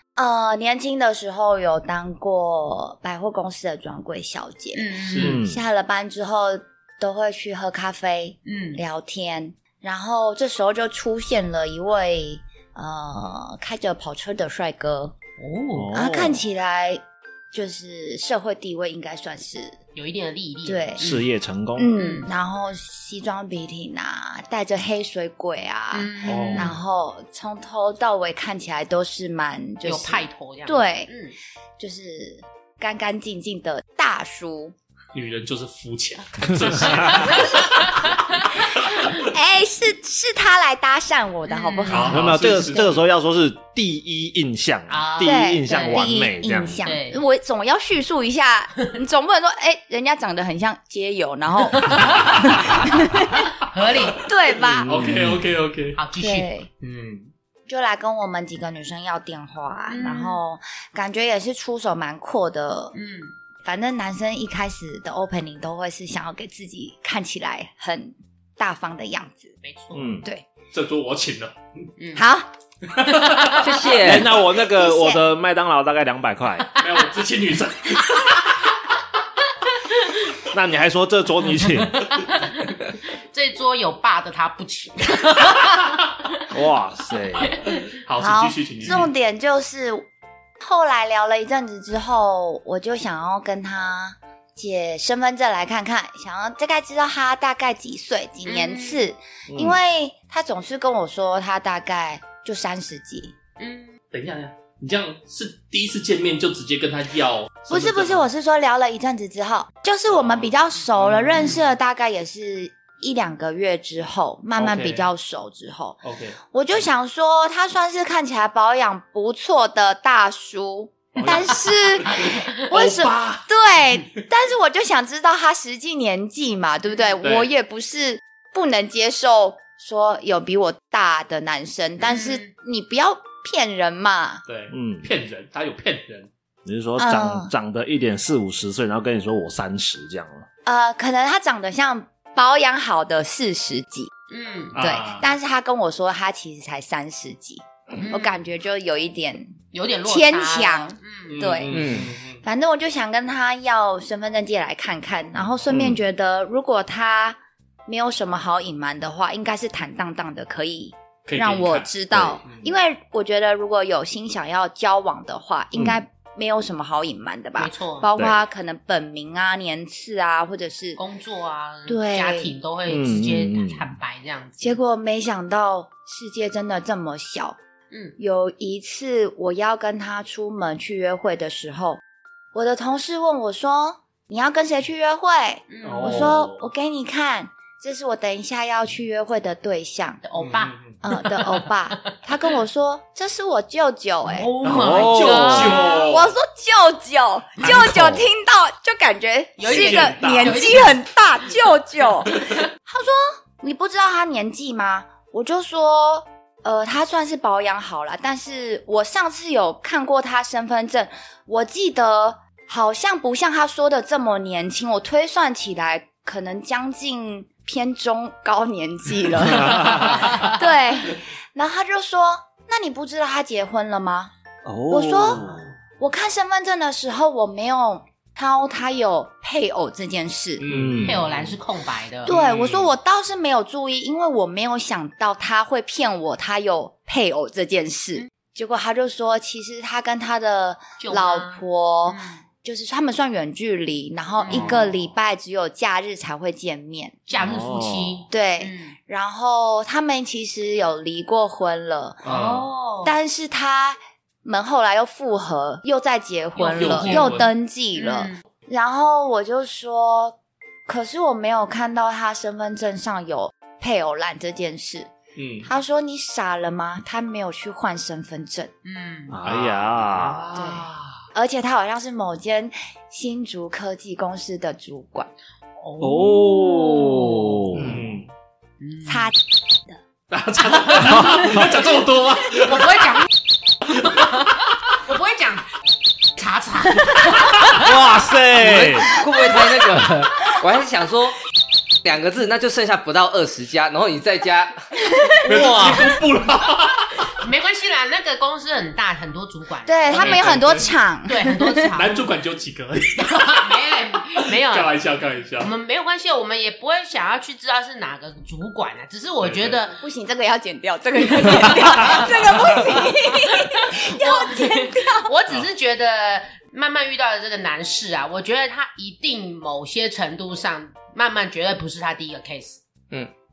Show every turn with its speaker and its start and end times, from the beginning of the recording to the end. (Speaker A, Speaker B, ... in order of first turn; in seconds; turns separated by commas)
Speaker A: 0.1-4.9, Speaker B: 4.7-5.4, Speaker C: 5.1-5.4, Speaker D: 5.2-5.6, Speaker A: 5.4-15.1, Speaker B: 8.4-8.8, Speaker B: 15.4-15.9, Speaker D: 15.7-16.4, Speaker A: 15.9-19.8, Speaker B: 19.9-21.3, Speaker A: 20.6-21.1, Speaker D: 21.0-21.9, Speaker A: 21.8-31.1, Speaker B: 21.9-22.3, Speaker B: 25.9-26.8, Speaker C: 26.2-26.8, Speaker B: 29.8-31.4, Speaker A: 31.8-34.7, Speaker C: 35.1-39.1, Speaker D: 36.8-37.1, Speaker B: 37.1-38.4, Speaker A: 39.1-42.6, Speaker B: 41.5-42.2, Speaker C: 41.9-43.0, Speaker D: 42.1-46.9, Speaker B: 44.9-46.1, Speaker A: 45.2-53.7, Speaker B: 46.8-47.2, Speaker B: 51.7-52.5, Speaker B: 53.6-54.2, Speaker A: 54.2-54.9, Speaker D: 54.6-55.4, Speaker C: 54.9-56.0, Speaker B: 56.0-56.5, Speaker A: 56.2-56.7, Speaker C: 56.8-57.3, Speaker A: 57.7-62.9, Speaker B: 59.9-60.4, Speaker B: 62.9-63.4, Speaker A: 63.6-69.5, Speaker B: 69.6-70.2, Speaker D: 69.9-70.2, Speaker C: 70.7-71.6, Speaker B: 72.0-72.2, Speaker A: 72.1-72.5, Speaker C: 72.9-73.7, Speaker B: 73.0-73.6, Speaker E: 73.6-74.3, Speaker D: 73.9-76.8, Speaker A: 74.4-75.2, Speaker C: 76.8-78.6, Speaker B: 78.0-78.4, Speaker B: 79.7-80.3, Speaker D: 80.5-82.0, Speaker B: 81.4-82.7, Speaker B: 83.3-86.4, Speaker D: 86.5-87.6, Speaker B: 87.4-87.8, Speaker C: 88.0-89.1, Speaker A: 88.2-90.1, Speaker A: 90.6-103.3, Speaker B: 98.5-99.0, Speaker D: 99.5-99.8, Speaker B: 103.6-104.0, Speaker C: 104.1-108.3, Speaker A: 107.7-134.4, Speaker C: 110.1-111.7, Speaker C: 114.6-115.1, Speaker C: 116.0-116.8, Speaker C: 121.2-123.5, Speaker C: 127.2-127.5, Speaker B: 132.0-132.5, Speaker C: 134.4-136.3, Speaker D: 134.7-135.1, Speaker D: 136.6-140.4, Speaker A: 137.0-137.5, Speaker A: 140.7-144.1, Speaker B: 144.3-144.7, Speaker C: 144.7-145.3, Speaker A: 144.8-151.8, Speaker B: 148.0-148.4, Speaker B: 149.7-151.4, Speaker C: 151.3-152.4, Speaker E: 151.7-152.1, Speaker A: 152.4-171.0, Speaker E: 155.7-156.0, Speaker C: 161.2-162.8, Speaker D: 165.8-166.0, Speaker B: 167.6-168.1, Speaker B: 171.0-174.8, Speaker A: 171.9-172.5, Speaker D: 172.9-173.9, Speaker A: 174.6-177.6, Speaker B: 177.9-178.2, Speaker A: 178.2-182.0, Speaker A: 182.5-190.2, Speaker B: 185.7-186.3, Speaker C: 185.8-186.7, Speaker B: 190.2-192.5, Speaker C: 190.4-191.0, Speaker A: 191.0-194.5, Speaker B: 194.2-196.1, Speaker C: 194.6-196.4, Speaker D: 194.7-195.7, Speaker A: 195.6-224.3, Speaker D: 197.6-198.2, Speaker B: 199.6-201.0, Speaker C: 199.6-200.7, Speaker D: 219.5-220.0, Speaker D: 224.6-225.7, Speaker A: 224.9-225.4, Speaker A: 226.0-230.7, Speaker C: 230.6-231.6, Speaker D: 230.7-231.2, Speaker B: 231.1-232.3, Speaker A: 232.2-247.2, Speaker C: 232.3-232.9, Speaker B: 241.0-242.4, Speaker B: 244.4-244.8, Speaker C: 244.5-244.9, Speaker B: 247.3-249.0, Speaker D: 247.4-248.2, Speaker A: 248.3-252.2, Speaker C: 252.2-252.7, Speaker B: 252.2-253.2, Speaker A: 253.0-260.4, Speaker B: 256.6-257.4, Speaker C: 256.7-257.5, Speaker B: 257.9-258.4, Speaker A: 260.9-265.1, Speaker C: 265.4-265.7, Speaker A: 265.6-268.7, Speaker B: 268.9-269.4, Speaker D: 269.3-270.6, Speaker C: 269.4-271.2, Speaker A: 270.6-275.3, Speaker B: 275.8-277.6, Speaker D: 276.0-278.0, Speaker E: 277.7-278.0, Speaker C: 277.9-278.3, Speaker B: 278.8-279.3, Speaker A: 279.1-280.0, Speaker C: 280.3-283.1, Speaker B: 280.9-281.3, Speaker B: 282.6-283.2, Speaker C: 284.0-284.3, Speaker B: 284.1-284.5, Speaker B: 285.1-285.6, Speaker B: 286.4-287.9, Speaker D: 287.7-289.1, Speaker E: 288.6-291.4, Speaker E: 292.0-294.8, Speaker C: 295.4-297.3, Speaker D: 295.4-296.1, Speaker B: 297.4-300.8, Speaker A: 299.9-301.9, Speaker C: 300.1-300.9, Speaker B: 301.3-302.3, Speaker C: 301.9-303.7, Speaker B: 303.4-304.9, Speaker C: 304.5-305.7, Speaker B: 305.6-310.0, Speaker C: 309.4-309.9, Speaker A: 310.0-315.3, Speaker B: 311.6-322.8